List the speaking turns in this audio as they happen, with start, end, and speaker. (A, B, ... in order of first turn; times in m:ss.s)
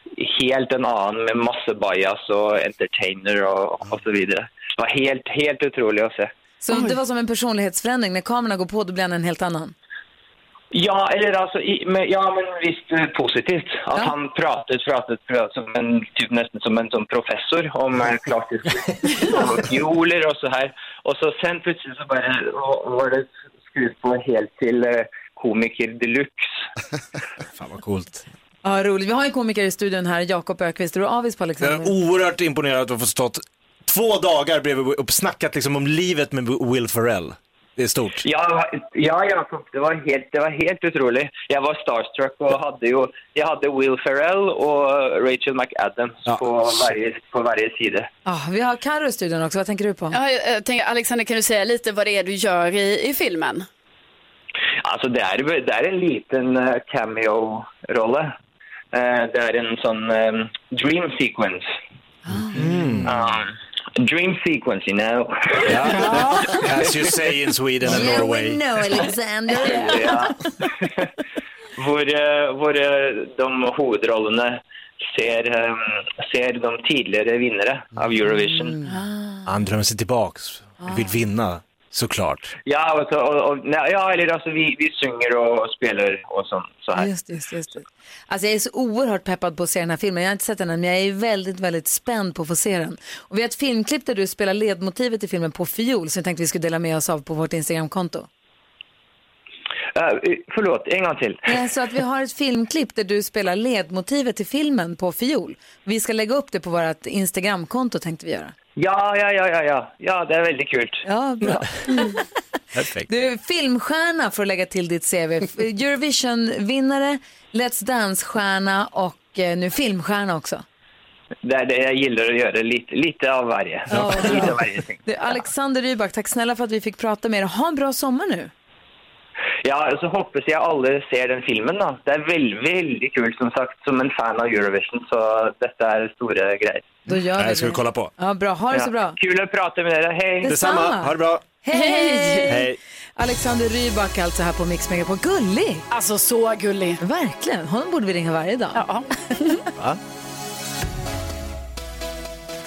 0:00.2-0:06.3 A
0:06.6-0:09.7 B
0:10.7-0:26.5 A
0:27.5-0:28.2 C
0:28.6-0:31.9 B
0:31.6-0:38.2 C
0:38.2-0:48.1 A
0:48.2-0:50.2 B
0:50.1-0:53.7 D
0:54.8-0:58.3 A
0:58.9-1:01.7 A
1:02.5-1:03.1 C
1:03.0-1:06.6 A
1:05.7-1:08.6 C
1:06.0-1:06.3 B
1:07.8-1:10.3 B
1:09.5-1:11.1 A
1:11.8-1:14.6 A
1:15.1-1:18.8 A
1:18.9-1:19.4 B
1:19.4-1:22.5 C
1:22.6-1:27.1 A
1:26.9-1:38.3 B
1:39.9-1:41.5 A
1:41.5-1:48.5 B
1:48.8-1:51.0 A
1:51.0-1:52.2 B
1:52.7-1:53.1 C
1:53.1-2:00.6 B
2:01.4-2:05.4 A
2:03.9-2:08.5 B
2:09.6-2:16.9 A
2:17.0-2:19.2 B
2:17.2-2:18.1 C
2:18.7-2:20.5 A
2:20.4-2:25.8 B
2:20.5-2:21.4 C
2:21.7-2:22.6 D
2:22.5-2:22.8 C
2:25.9-2:27.0 D
2:27.0-2:29.6 B
2:28.7-2:29.5 D
2:29.7-2:30.0 C